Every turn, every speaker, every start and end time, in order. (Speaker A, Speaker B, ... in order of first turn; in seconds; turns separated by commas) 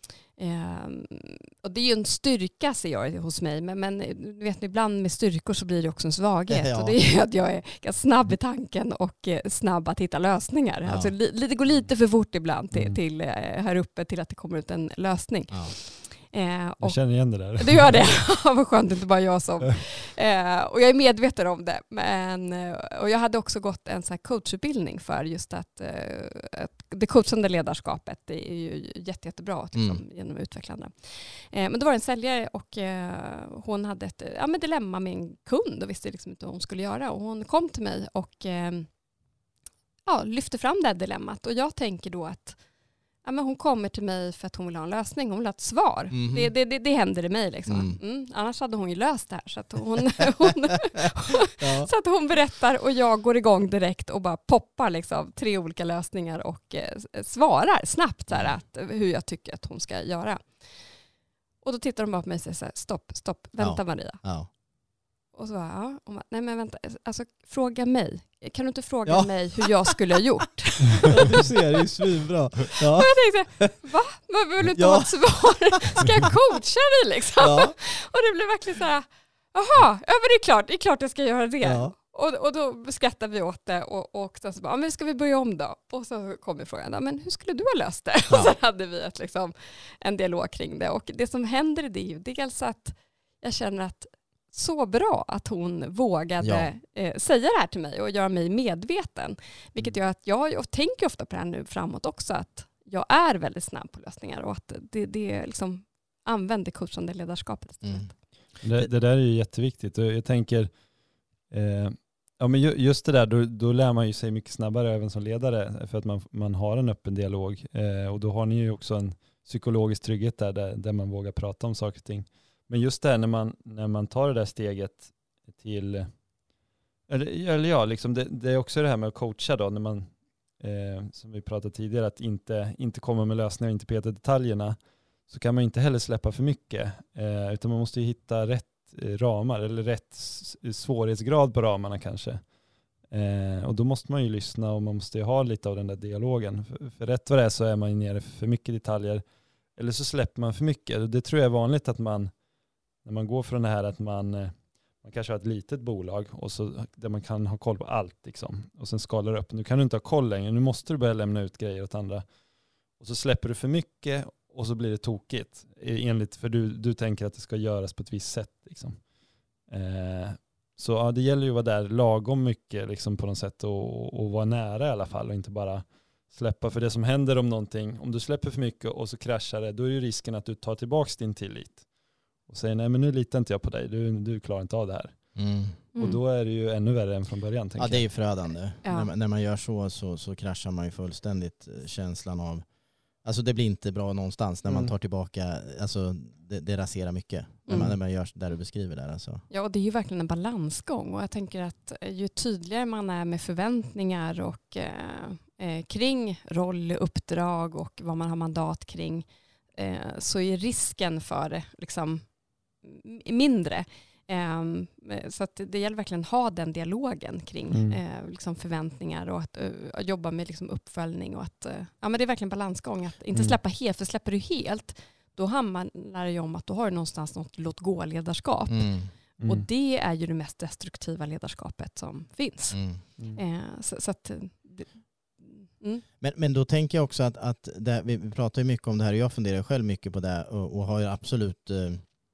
Speaker A: 0.3-38.9, Speaker B: 6.5-6.9, Speaker B: 10.8-11.1, Speaker C: 12.7-13.0, Speaker C: 16.8-18.2, Speaker B: 29.7-30.0, Speaker A: 40.0-42.6, Speaker A: 43.2-60.8, Speaker B: 46.1-46.5, Speaker B: 47.7-48.0, Speaker B: 51.6-51.9, Speaker B: 58.3-58.6, Speaker A: 61.6-64.2, Speaker B: 63.6-64.5, Speaker A: 65.3-71.2, Speaker B: 69.0-70.0, Speaker B: 71.0-73.8, Speaker A: 72.9-108.1, Speaker B: 74.7-76.3, Speaker B: 77.4-77.8, Speaker B: 81.6-81.9, Speaker B: 96.4-96.7, Speaker C: 108.6-110.9, Speaker C: 111.4-126.2, Speaker C: 127.1-142.5, Speaker C: 143.1-152.4, Speaker C: 153.0-162.4, Speaker C: 162.9-181.9, Speaker C: 182.4-185.2, Speaker B: 185.3-185.7, Speaker A: 185.9-186.2, Speaker C: 185.9-188.1, Speaker B: 187.8-192.7, Speaker A: 188.8-189.1, Speaker B: 193.2-199.4, Speaker C: 194.7-194.9, Speaker A: 197.7-197.9, Speaker A: 199.5-212.3, Speaker A: 212.8-236.0, Speaker C: 217.7-218.0, Speaker B: 228.7-229.1, Speaker C: 229.4-229.6, Speaker B: 232.7-233.0, Speaker B: 236.2-242.1